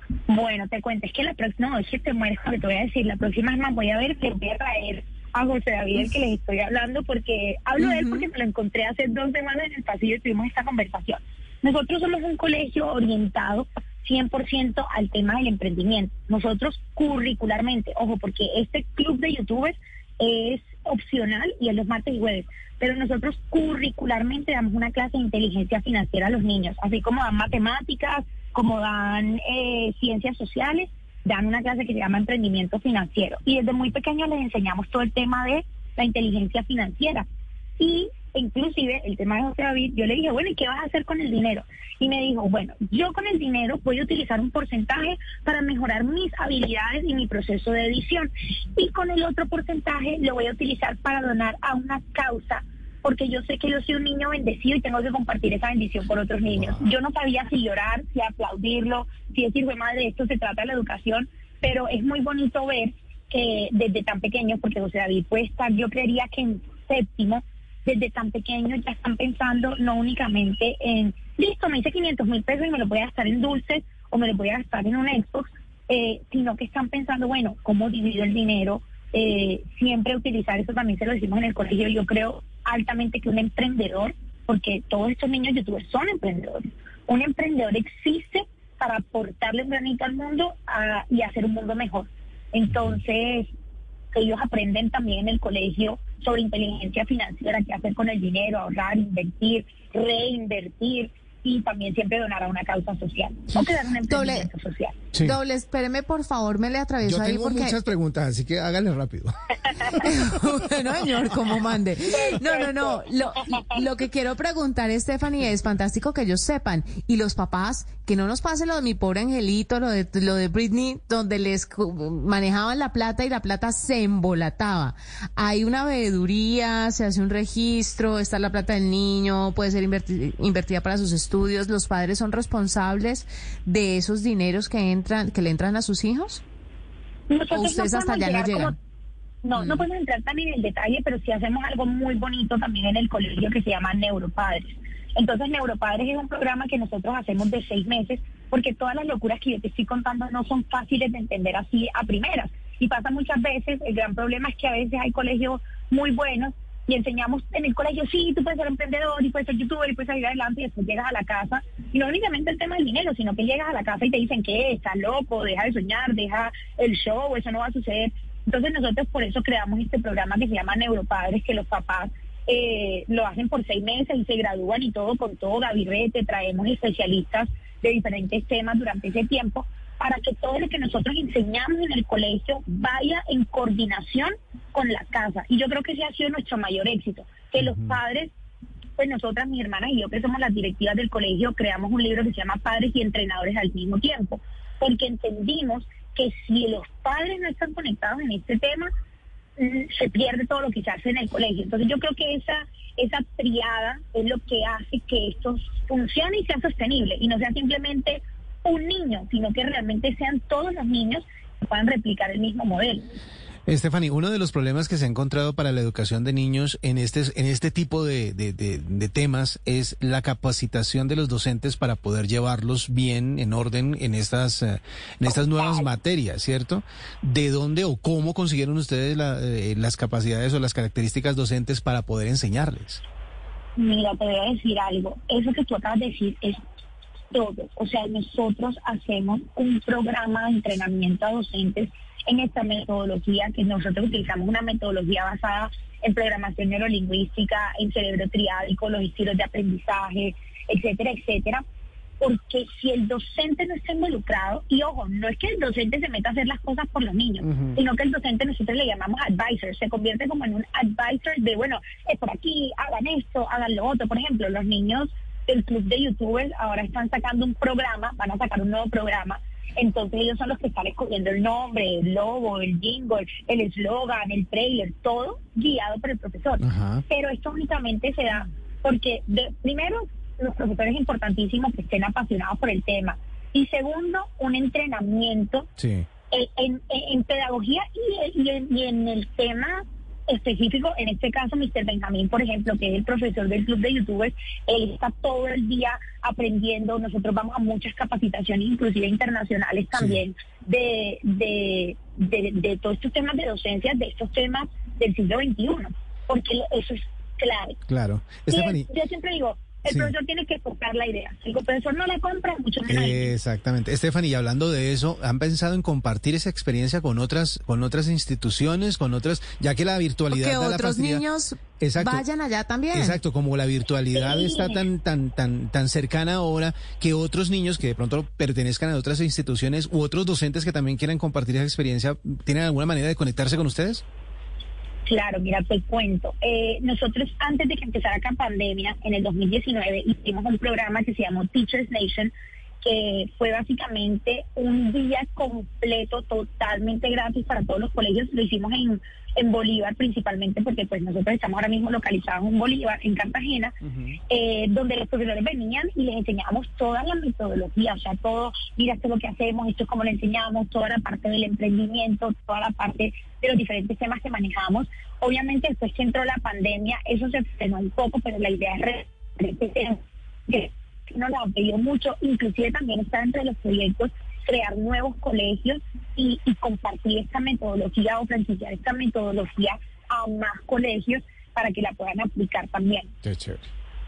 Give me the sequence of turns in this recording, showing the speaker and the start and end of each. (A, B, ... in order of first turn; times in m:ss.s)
0:00.3-0:37.2 A
0:07.8-0:08.2 B
0:37.8-1:33.5 A
1:34.1-1:45.0 A
1:44.1-1:44.5 B
1:45.2-1:47.8 B
1:47.0-1:49.3 C
1:49.9-2:16.4 B
1:52.1-1:53.0 A
2:17.3-2:18.8 A
2:17.5-2:18.7 B
2:19.4-3:08.3 A
3:07.6-3:07.9 C
3:09.0-3:18.9 A
3:19.6-3:33.1 A
3:33.7-3:53.0 C
3:45.4-3:45.8 A
3:53.8-3:56.6 A
3:57.3-4:11.6 A
4:12.2-4:45.7 A
4:17.4-4:17.8 C
4:36.6-4:37.0 C
4:45.8-4:46.1 C
4:46.3-5:07.8 A
4:59.9-5:00.2 C
5:07.9-5:08.9 C
5:08.5-5:13.3 A
5:12.9-5:21.2 C
5:20.3-5:23.2 B
5:21.8-5:22.2 C
5:22.9-5:34.0 C
5:24.1-5:24.8 A
5:35.1-5:42.3 A
5:42.8-5:53.7 A
5:53.9-5:54.2 C
5:54.3-6:23.1 A
6:23.2-6:23.6 C